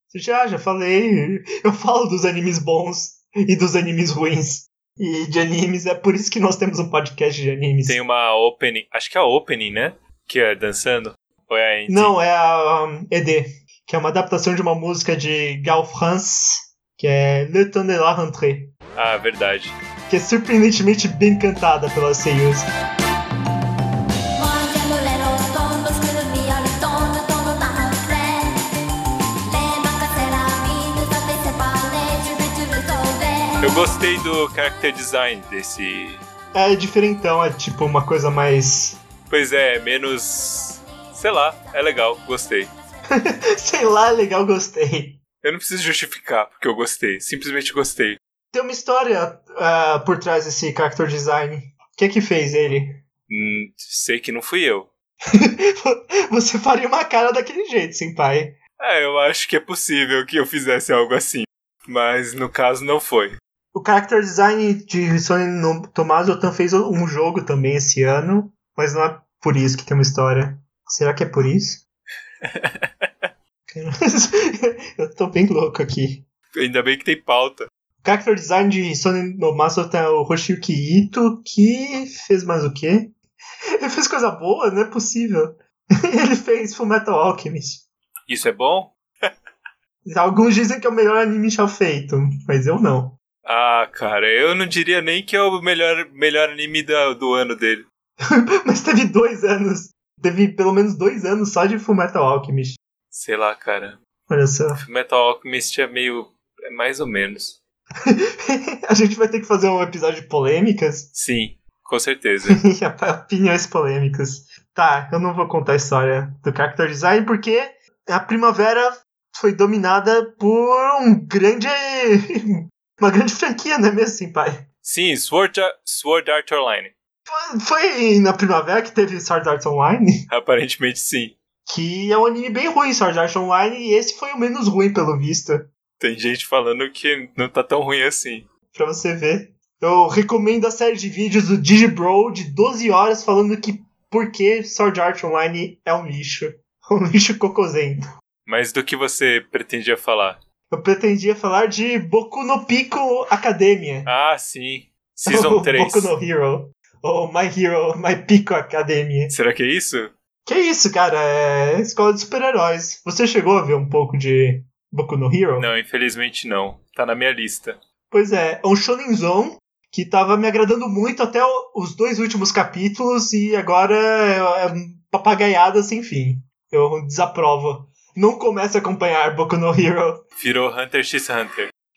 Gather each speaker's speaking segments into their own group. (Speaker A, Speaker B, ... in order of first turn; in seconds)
Speaker A: 0.1-8.0, 11.9-18.7, 20.1-22.7, 36.5-39.0, 43.1-45.2, 48.5-53.0, 55.3-58.6, 63.7-71.8, 73.7-76.2, 78.0-83.2, 83.8-87.8, 90.0-93.2, 98.2-102.8, 104.3-104.8, 108.1-111.1, 112.5-124.6, 127.3-130.3, 131.7-135.7, 138.7-148.0, 150.7-154.1, 155.3-159.3, 160.5-165.7, 168.1-180.2
Speaker B: 7.9-12.2, 18.9-19.8, 33.6-36.2, 39.3-42.7, 45.4-48.2, 53.3-54.9, 58.8-63.4, 72.5-73.1, 76.5-77.7, 88.3-88.9, 93.5-97.8, 103.1-104.0, 104.8-107.6, 111.1-112.6, 124.8-126.9, 130.3-131.3, 136.0-138.5, 148.5-150.4, 154.1-156.1, 159.3-160.1, 165.6-167.8, 180.4-181.7
Speaker C: 24.4-28.7, 29.5-33.8